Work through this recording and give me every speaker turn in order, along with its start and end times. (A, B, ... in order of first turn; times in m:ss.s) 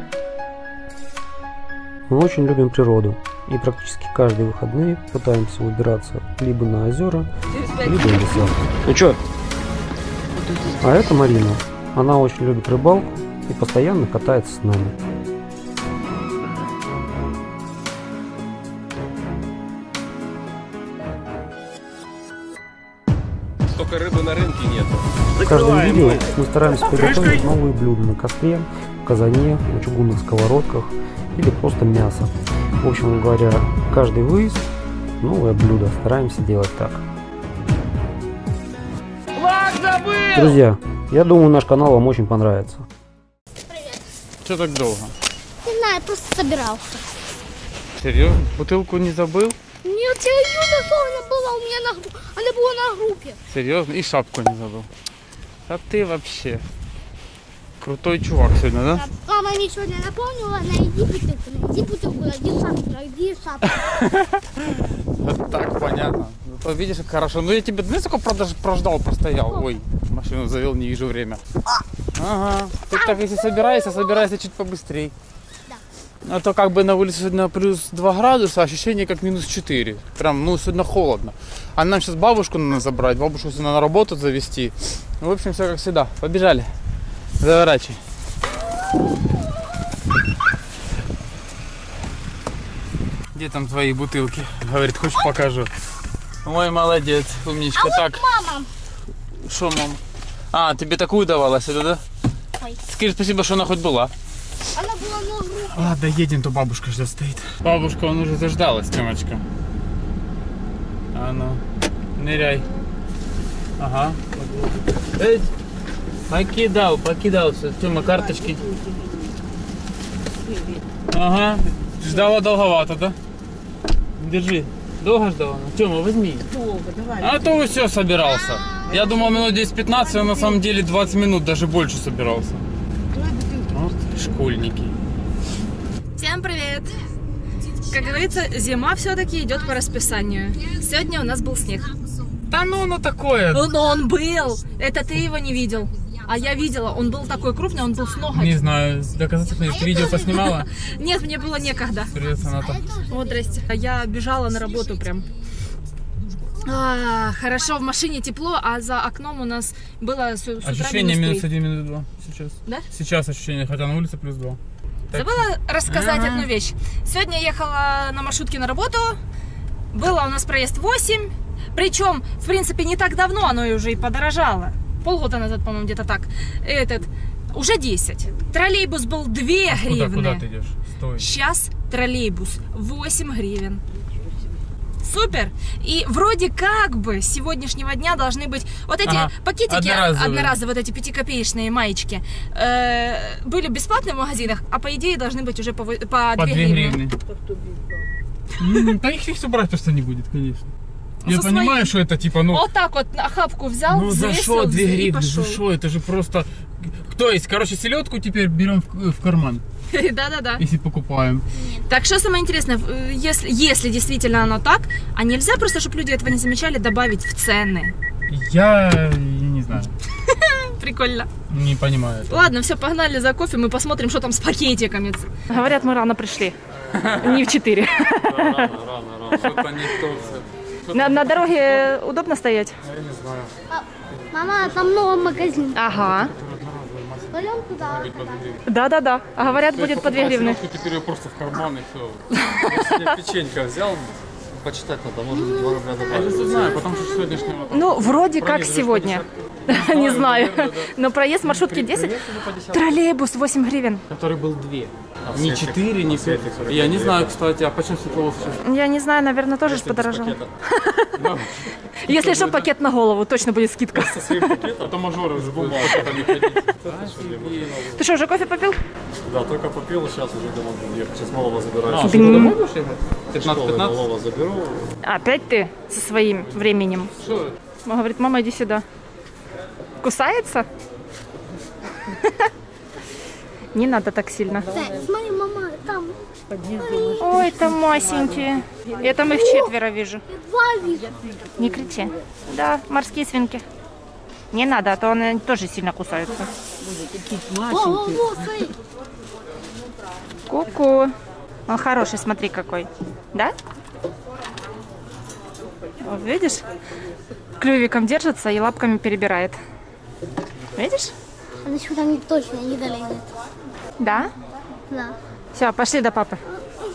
0:02.1-0:07.3 A
0:07.5-0:08.6 B
0:07.8-0:09.2 A
0:10.8-0:15.0 A
0:23.7-0:27.4 C
0:25.4-0:34.6 A
0:35.2-0:37.0 A
0:40.3-0:42.9 A
0:43.7-0:44.0 D
0:44.4-0:45.1 E
0:45.6-0:47.0 D
0:48.0-0:49.6 E
0:49.8-0:53.4 D
0:53.5-0:54.9 E
0:55.7-0:56.6 E
0:57.8-0:59.0 E
0:59.0-1:03.9 D
1:03.7-1:11.4 E
1:12.2-1:15.1 E
1:12.9-1:14.2 D
1:16.2-1:26.7 E
1:27.4-1:28.0 E
1:33.3-1:35.7 E
1:36.4-1:38.2 E
1:37.8-1:38.7 D
1:39.5-1:40.0 E
1:40.5-1:42.0 E
1:42.8-1:44.1 E
1:44.7-1:45.9 D
1:45.7-1:49.4 E
1:51.1-1:51.6 E
1:52.2-1:52.6 E
1:53.8-1:55.5 E
1:56.3-1:58.6 E
2:01.1-2:03.2 E
2:04.2-2:06.5 E
2:06.5-2:07.3 B
2:07.2-2:12.7 E
2:13.3-2:13.6 B
2:13.7-2:14.9 E
2:16.2-2:17.0 B
2:17.8-2:21.9 B
2:22.5-2:23.7 E
2:23.5-2:28.6 B
2:28.3-2:30.7 E
2:29.9-2:32.1 B
2:32.1-2:32.9 E
2:33.0-2:35.3 B
2:36.6-2:41.5 B
2:40.6-2:44.6 E
2:45.1-2:49.2 B
2:45.1-2:46.5 E
2:49.9-3:00.4 B
2:59.7-3:01.3 E
3:01.2-3:03.8 B
3:05.0-3:17.0 B
3:09.0-3:10.6 E
3:16.4-3:17.2 E
3:18.6-3:20.7 E
3:21.2-3:21.9 B
3:21.2-3:22.7 E
3:22.5-3:25.6 B
3:23.9-3:29.6 E
3:29.9-3:30.6 B
3:30.6-3:31.4 E
3:31.6-3:31.8 D
3:31.9-3:38.0 B
3:38.3-3:39.9 E
3:40.2-3:41.3 B
3:41.5-3:42.6 E
3:42.3-3:46.6 B
3:46.9-3:47.5 E
3:47.2-3:48.8 B
3:48.2-3:50.4 C
3:49.3-3:49.8 B
3:49.4-3:51.8 E
3:50.9-3:52.7 B
3:52.8-3:53.5 E
3:53.7-3:55.8 D
3:55.7-3:56.3 B
3:56.0-3:58.6 E
3:57.3-3:58.6 D
3:58.7-4:00.6 B
3:59.6-4:02.3 E
4:02.3-4:02.9 B
4:02.6-4:06.7 C
4:05.4-4:05.7 D
4:06.1-4:10.9 E
4:07.7-4:12.2 B
4:11.4-4:13.0 E
4:12.7-4:14.0 B
4:14.1-4:18.6 E
4:15.3-4:17.4 C
4:18.6-4:21.1 B
4:19.6-4:20.5 C
4:21.2-4:22.7 E
4:22.0-4:24.6 B
4:23.9-4:28.0 C
4:24.8-4:27.8 E
4:28.0-4:28.8 B
4:29.2-4:32.4 C
4:31.9-4:34.0 E
4:32.0-4:32.6 B
4:33.4-4:35.0 C
4:35.0-4:37.1 B
4:37.2-4:37.6 E
4:37.8-4:38.8 B
4:40.0-4:40.7 B
4:42.1-4:42.5 B
4:43.7-4:44.7 B
4:44.7-4:47.3 D
4:47.2-4:50.2 B
4:49.3-4:49.7 D
4:50.3-4:51.2 D
4:51.6-4:53.6 B
4:54.5-4:56.5 B
4:57.4-4:58.2 E
4:57.7-4:58.8 D
5:00.5-5:01.1 B
5:01.7-5:03.6 B
5:06.0-5:06.7 B
5:07.6-5:09.6 B
5:10.8-5:11.1 B
5:11.6-5:13.3 D
5:14.0-5:14.3 B
5:14.9-5:15.2 D
5:15.5-5:16.4 B